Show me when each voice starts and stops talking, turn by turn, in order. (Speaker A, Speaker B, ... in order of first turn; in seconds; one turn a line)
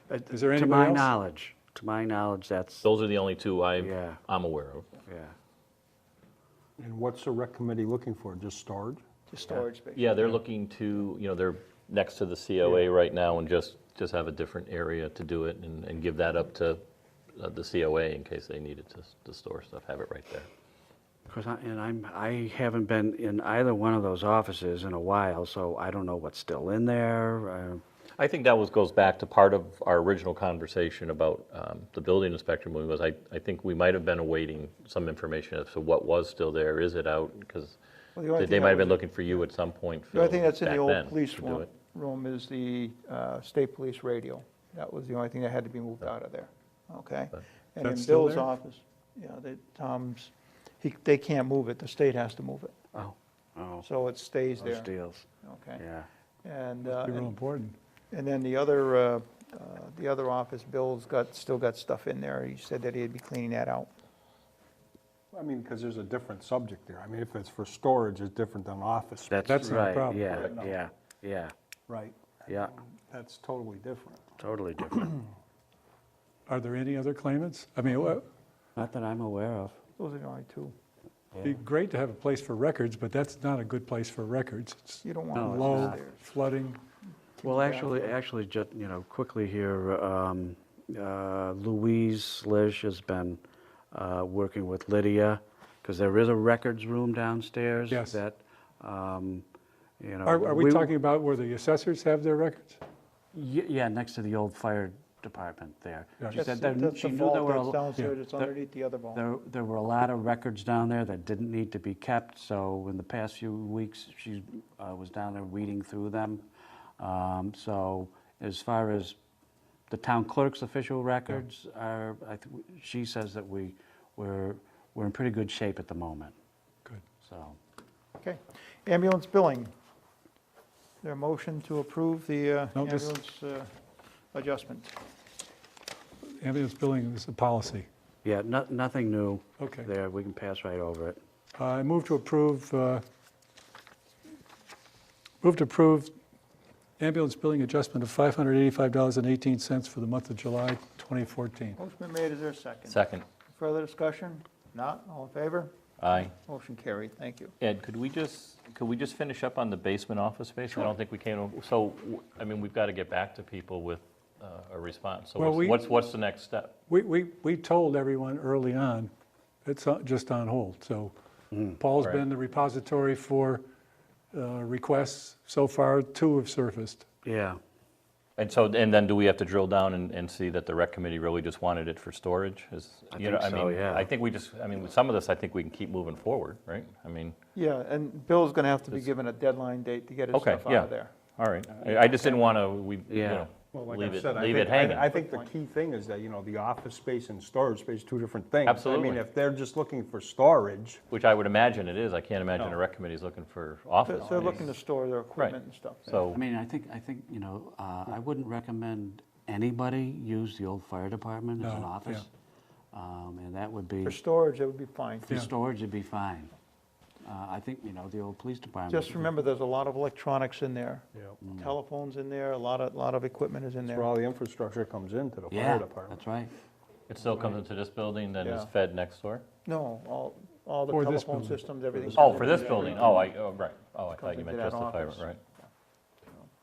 Speaker A: 0.2-1.1
Speaker B: 0.5-2.9
Speaker C: 2.8-4.9
Speaker B: 3.8-4.2
Speaker B: 5.1-5.3
Speaker D: 6.8-9.0
Speaker E: 9.3-10.4
Speaker C: 9.5-16.8
Speaker C: 17.3-20.5
Speaker B: 21.3-27.8
Speaker C: 28.2-37.8
Speaker E: 38.1-39.4
Speaker C: 38.3-41.7
Speaker E: 40.1-52.7
Speaker A: 47.8-48.5
Speaker B: 52.9-53.9
Speaker E: 53.8-54.9
Speaker B: 54.6-55.2
Speaker E: 55.4-55.8
Speaker B: 55.8-56.1
Speaker E: 56.4-57.3
Speaker A: 56.9-57.8
Speaker E: 58.1-63.9
Speaker D: 65.3-70.8
Speaker B: 69.3-71.5
Speaker A: 69.4-70.5
Speaker C: 70.3-70.6
Speaker D: 71.9-74.3
Speaker B: 74.4-75.1
Speaker A: 76.5-78.2
Speaker B: 78.8-79.8
Speaker E: 80.0-80.7
Speaker A: 81.4-86.8
Speaker E: 85.0-86.2
Speaker B: 85.3-86.0
Speaker E: 87.4-88.2
Speaker B: 87.4-93.4
Speaker B: 93.9-99.5
Speaker A: 97.9-98.2
Speaker B: 100.0-100.9
Speaker A: 100.2-102.8
Speaker B: 103.3-107.8
Speaker E: 106.3-109.2
Speaker B: 109.1-116.4
Speaker B: 117.0-119.2
Speaker B: 119.9-126.3
Speaker B: 127.2-127.6
Speaker E: 128.2-129.7
Speaker E: 131.0-133.7
Speaker A: 132.7-133.1
Speaker E: 134.3-134.9
Speaker A: 136.4-137.9
Speaker B: 138.2-141.2
Speaker A: 139.6-139.9
Speaker A: 141.6-143.0
Speaker A: 145.4-146.1
Speaker A: 147.0-151.8
Speaker E: 151.8-157.5
Speaker C: 152.8-153.2
Speaker C: 156.0-156.3
Speaker C: 157.6-166.7
Speaker A: 165.4-165.8
Speaker A: 166.9-169.1
Speaker A: 169.6-171.1
Speaker A: 171.7-173.6
Speaker A: 174.3-177.1
Speaker B: 177.2-177.6
Speaker C: 178.4-187.3
Speaker B: 183.1-184.1
Speaker E: 187.5-191.1
Speaker C: 190.3-195.1
Speaker E: 192.0-192.4
Speaker B: 193.1-193.5
Speaker D: 193.7-201.0
Speaker E: 194.6-195.5
Speaker C: 198.6-199.2
Speaker C: 201.1-204.7
Speaker D: 202.5-202.8
Speaker E: 204.0-206.2
Speaker D: 204.3-204.6
Speaker C: 205.3-206.4
Speaker B: 206.3-212.2
Speaker A: 211.6-212.2
Speaker B: 212.9-214.2
Speaker E: 214.0-215.3
Speaker B: 215.3-216.5
Speaker B: 217.2-219.3
Speaker E: 218.9-224.1
Speaker B: 221.4-221.7
Speaker D: 223.8-226.2
Speaker B: 225.5-226.5
Speaker C: 227.1-229.4
Speaker E: 228.4-228.7
Speaker E: 229.6-233.3
Speaker A: 230.9-231.6
Speaker D: 231.9-233.0
Speaker C: 232.1-235.4
Speaker E: 234.1-235.7